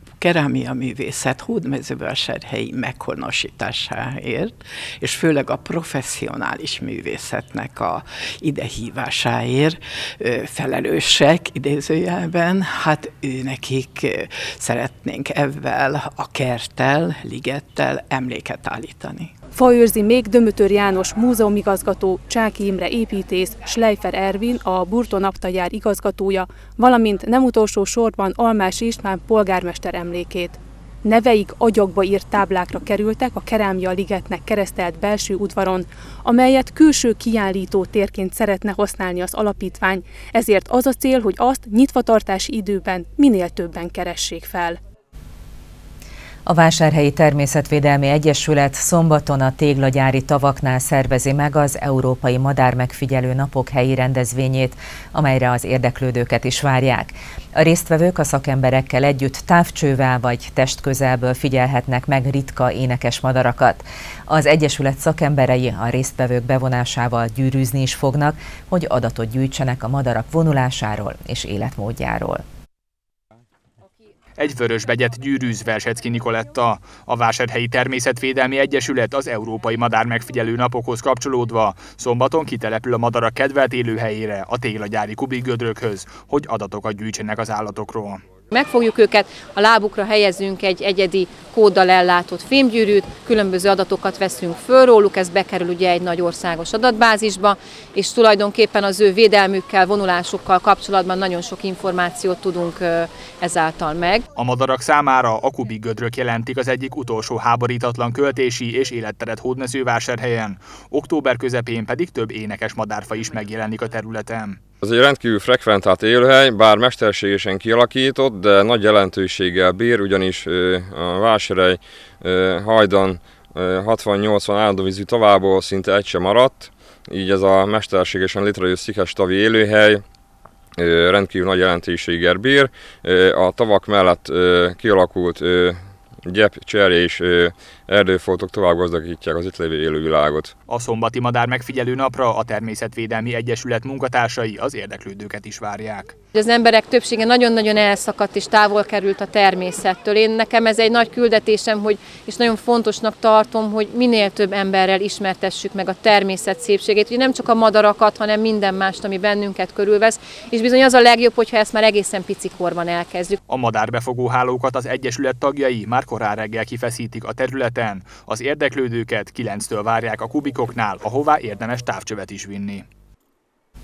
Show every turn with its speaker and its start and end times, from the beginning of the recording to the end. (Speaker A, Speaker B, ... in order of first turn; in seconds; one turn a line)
Speaker A: 0.2-19.3
Speaker B: 19.6-44.8
Speaker C: 46.5-72.4
Speaker D: 74.4-88.2
Speaker E: 88.5-104.2
Speaker D: 104.4-114.6
Speaker F: 114.8-130.0
Speaker F: 130.8-140.5
Speaker D: 140.7-146.1
Speaker E: 146.3-163.4
Speaker D: 163.5-172.8